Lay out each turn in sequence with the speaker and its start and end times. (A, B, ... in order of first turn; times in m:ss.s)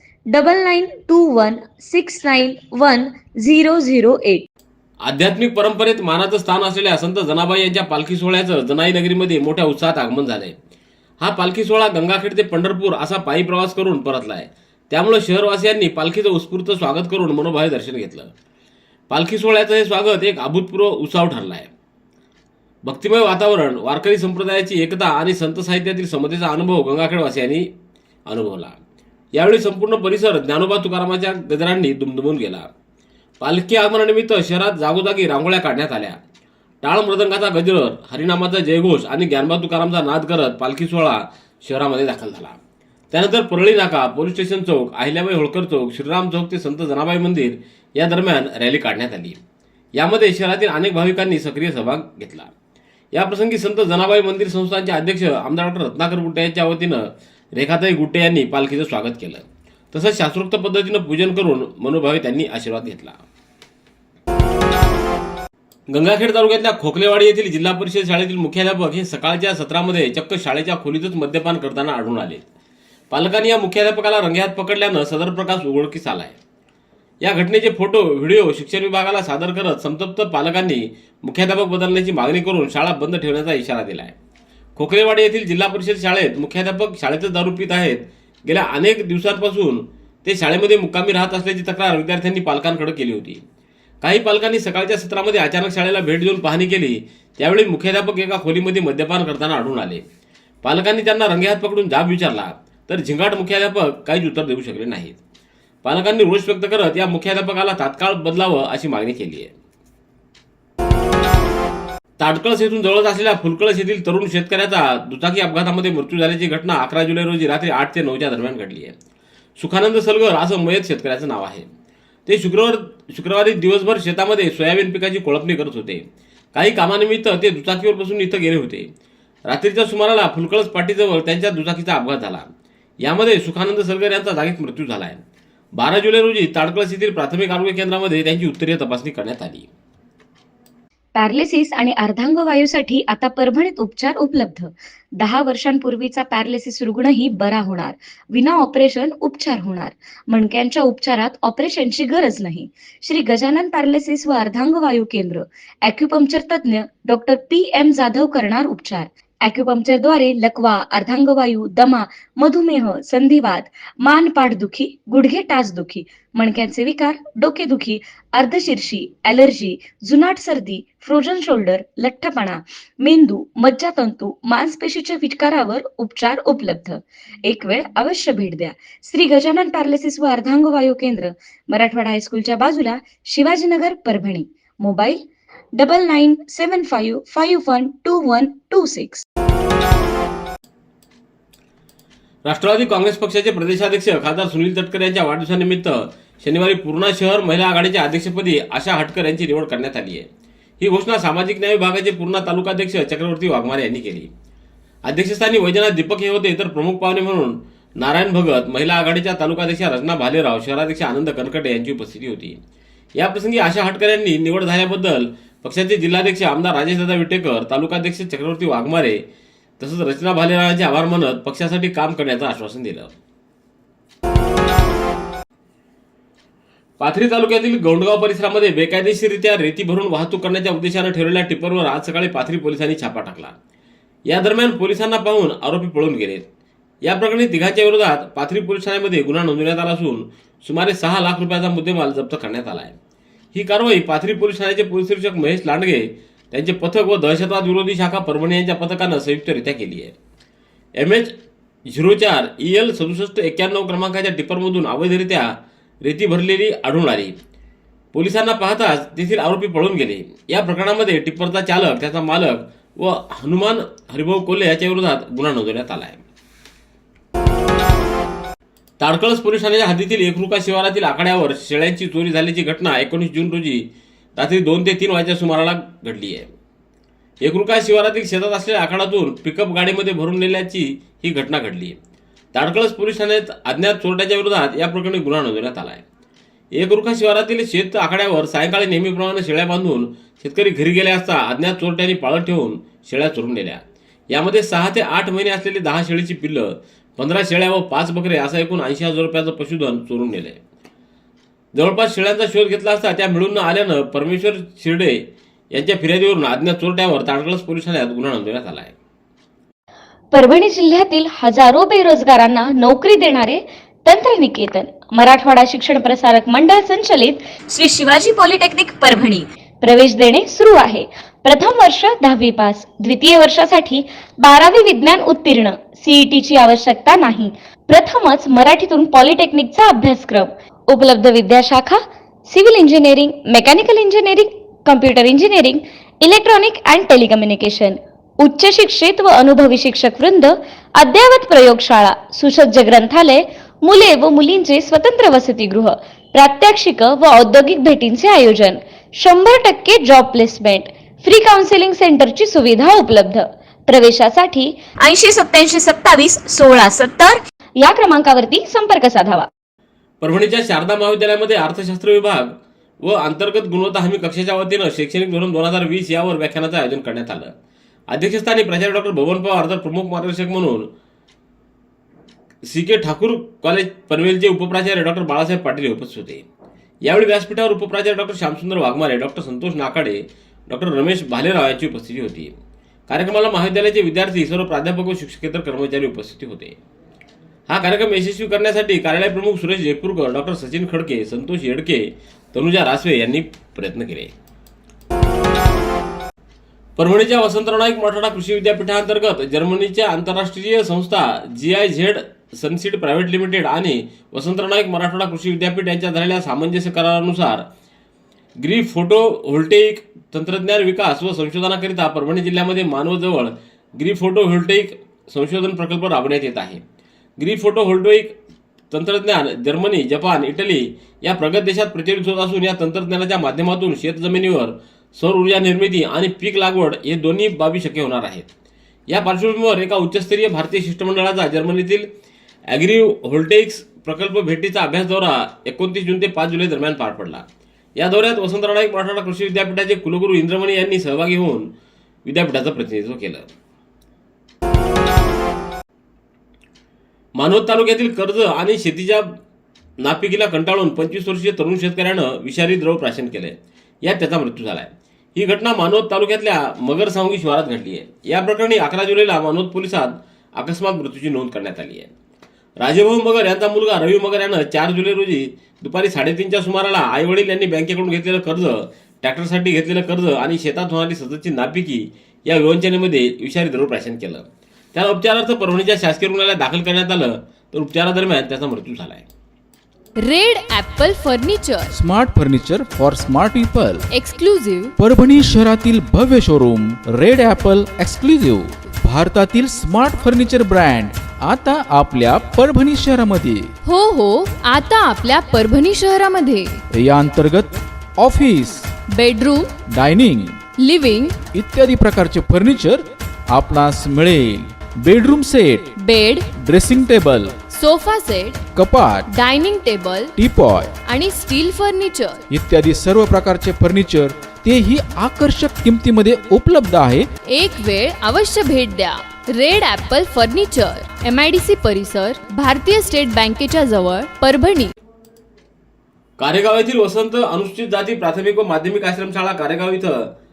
0:00.3-0:04.5 A
0:05.0-0:10.6 B
0:11.2-0:18.3 B
0:19.1-0:21.7 B
0:22.8-0:27.7 B
0:28.3-0:28.8 B
0:29.4-0:32.7 B
0:33.4-0:36.2 B
0:36.8-0:42.6 B
0:43.1-0:49.4 B
0:50.0-0:52.5 B
0:53.1-1:03.2 B
1:05.9-1:12.5 B
1:13.1-1:16.4 B
1:17.2-1:24.2 B
1:24.8-1:33.4 B
1:34.0-1:40.0 B
1:40.6-1:45.2 B
1:45.8-1:49.6 B
1:52.2-1:59.0 B
1:59.6-2:01.7 B
2:02.3-2:08.9 B
2:09.5-2:12.5 B
2:13.0-2:15.2 B
2:15.8-2:19.7 B
2:21.2-3:05.2 A
3:05.8-3:09.2 A
3:12.4-3:20.3 B
3:20.8-3:24.3 B
3:25.0-3:32.6 B
3:33.2-3:39.2 B
3:39.8-3:43.1 B
3:47.0-3:53.6 B
3:54.3-3:56.5 B
3:57.0-4:03.0 B
4:03.5-4:10.2 B
4:11.0-4:11.3 B
4:11.9-4:17.4 B
4:18.1-4:26.2 B
4:29.0-4:36.5 B
4:37.4-4:42.0 B
4:42.5-4:46.0 B
4:46.8-5:00.6 B
5:01.7-5:09.0 B
5:10.3-5:59.5 A
6:00.2-6:07.5 B
6:08.1-6:10.9 B
6:12.7-6:16.5 B
6:17.0-6:22.5 B
6:23.1-6:26.8 B
6:27.7-6:34.3 B
6:37.0-6:47.7 B
6:48.6-6:56.8 B
6:57.4-6:58.4 B
6:58.9-7:08.5 B
7:09.1-7:12.1 B
7:12.7-7:17.4 B
7:18.0-7:21.7 B
7:22.2-7:23.5 B
7:27.4-7:29.4 B
7:30.0-7:42.1 B
7:42.8-7:59.3 B
8:00.2-8:02.0 C
8:01.9-8:04.0 D
8:04.1-8:04.9 C
8:05.0-8:13.7 D
8:13.8-8:16.8 C
8:16.9-8:18.9 D
8:19.1-8:19.7 C
8:19.9-8:20.6 D
8:20.8-8:21.4 C
8:21.5-8:25.9 D
8:26.0-8:26.5 C
8:26.5-8:27.6 D
8:27.6-8:28.7 C
8:28.7-8:29.3 D
8:29.3-8:30.3 C
8:30.4-8:30.9 D
8:31.0-8:32.4 C
8:32.5-8:37.3 D
8:37.5-8:44.9 C
8:46.4-8:50.3 B